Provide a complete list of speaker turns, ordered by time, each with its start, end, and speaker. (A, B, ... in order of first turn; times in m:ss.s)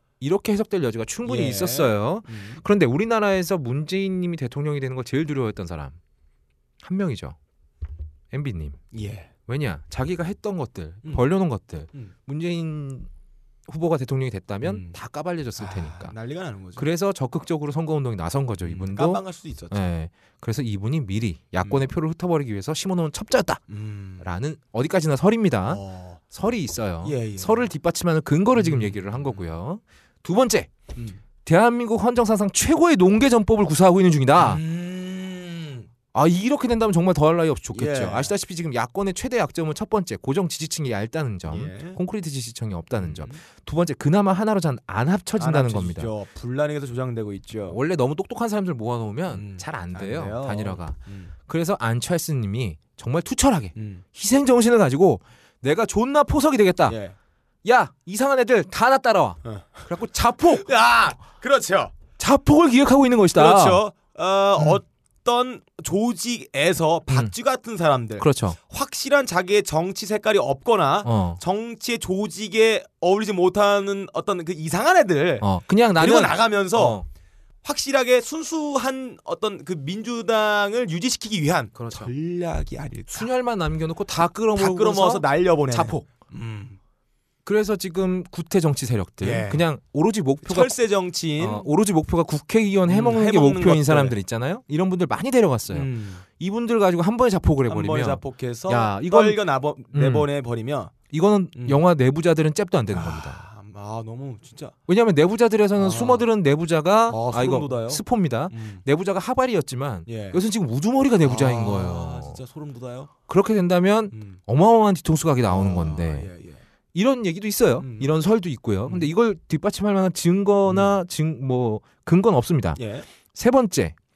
0:00.2-0:06.0 A
0:01.2-0:02.6 B
0:06.8-0:07.4 A
0:08.3-0:08.8 A
0:08.9-0:09.3 B
0:09.5-0:13.1 A
0:13.7-0:16.1 A
0:14.6-0:15.0 B
0:15.6-0:16.9 B
0:16.8-0:23.6 A
0:18.7-0:19.8 B
0:23.7-0:24.2 B
0:24.2-0:30.7 A
0:25.7-0:26.2 B
0:27.0-0:27.7 B
0:28.6-0:29.4 B
0:31.0-0:31.2 B
0:31.4-0:34.6 A
0:34.4-0:35.9 B
0:36.1-0:46.1 A
0:37.8-0:38.3 B
0:41.5-0:42.0 B
0:43.0-0:43.4 B
0:45.4-0:47.8 B
0:47.7-0:57.0 A
0:49.3-0:51.3 B
0:53.8-0:54.0 B
0:56.9-0:57.2 B
0:57.6-1:00.7 A
0:59.5-0:59.8 B
1:00.6-1:01.9 B
1:02.2-1:03.8 A
1:03.4-1:17.0 B
1:08.2-1:08.6 A
1:11.0-1:11.4 A
1:15.4-1:17.0 A
1:17.6-1:23.3 B
1:21.8-1:22.1 A
1:23.1-1:26.1 A
1:24.6-1:26.8 B
1:27.4-1:30.7 A
1:29.2-1:29.6 B
1:30.4-1:31.7 B
1:31.4-1:39.4 A
1:32.9-1:34.2 B
1:35.7-1:36.2 B
1:37.7-1:41.0 B
1:39.9-1:40.3 A
1:41.1-1:43.4 A
1:41.6-1:41.8 B
1:42.9-1:44.8 B
1:44.9-1:52.4 A
1:45.8-1:46.2 B
1:47.1-1:48.8 B
1:50.1-1:50.4 B
1:51.2-1:53.1 B
1:53.3-1:56.3 A
1:54.1-1:54.4 B
1:55.5-1:56.6 B
1:56.9-2:02.8 A
1:57.8-1:58.1 B
2:00.7-2:01.0 B
2:02.8-2:03.1 B
2:03.3-2:04.0 A